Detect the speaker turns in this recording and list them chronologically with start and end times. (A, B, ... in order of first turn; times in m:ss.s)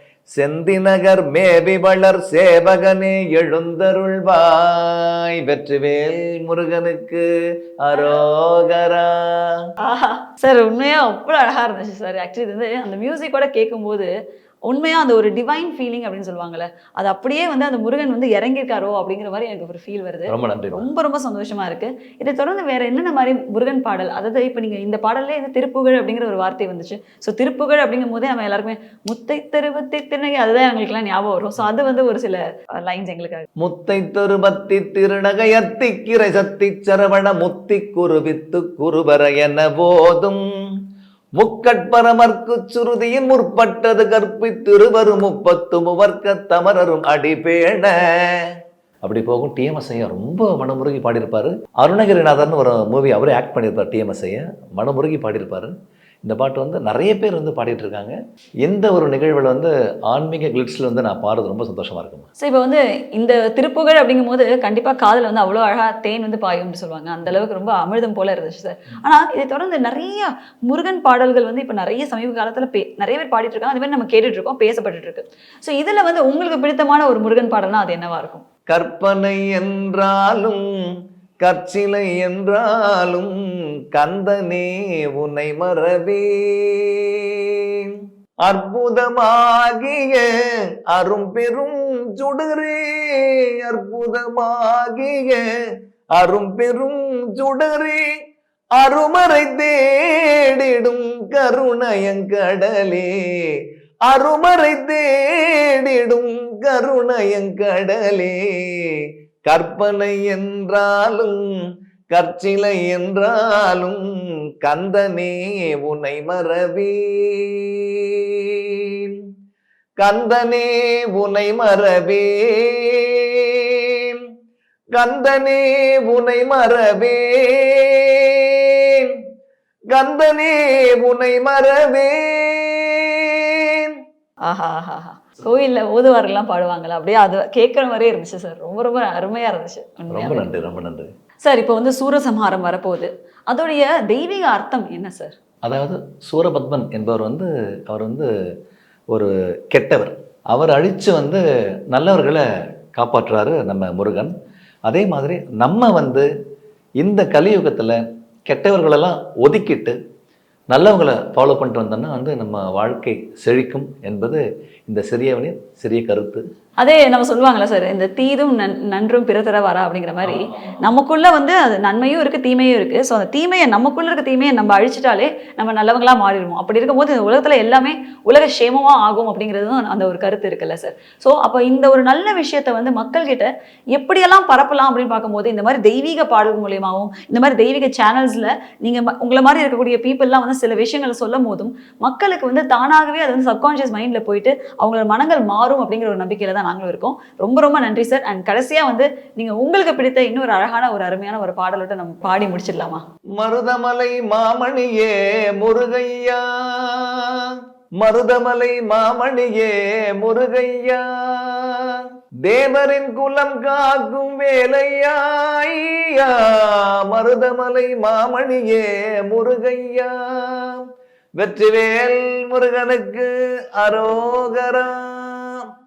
0:00.3-0:07.2 A
0:07.8-0:09.4 A
0:07.9-0:08.2 B
0:09.8-0:14.1 B
0:14.7-0:33.5 B
0:20.3-0:20.9 A
0:33.6-0:40.4 A
0:41.4-0:48.4 A
0:49.0-0:55.7 A
0:56.2-1:02.3 A
1:02.4-1:18.4 B
1:18.7-1:20.6 A
1:21.4-1:23.3 A
1:23.9-1:27.9 A
1:28.4-1:30.2 A
1:30.9-1:35.5 A
1:36.2-1:38.0 A
1:38.8-1:43.1 A
1:44.1-1:48.9 A
1:49.4-1:51.4 A
1:52.1-1:54.0 A
1:54.6-1:59.1 A
2:00.0-2:04.2 A
2:05.0-2:09.1 A
2:09.9-2:13.9 A
2:14.4-2:20.5 B
2:20.1-2:21.1 A
2:21.4-2:25.3 B
2:25.6-2:28.3 A
2:29.1-2:31.4 A
2:31.9-2:32.4 A
2:33.0-2:34.3 A
2:34.9-2:36.3 A
2:37.0-2:38.0 A
2:38.5-2:40.0 A
2:40.7-2:46.4 A
2:46.8-3:23.0 B
2:50.2-2:50.8 A
3:23.4-3:27.4 A
3:28.0-3:31.8 A
3:32.4-3:40.8 A
3:41.4-3:45.6 A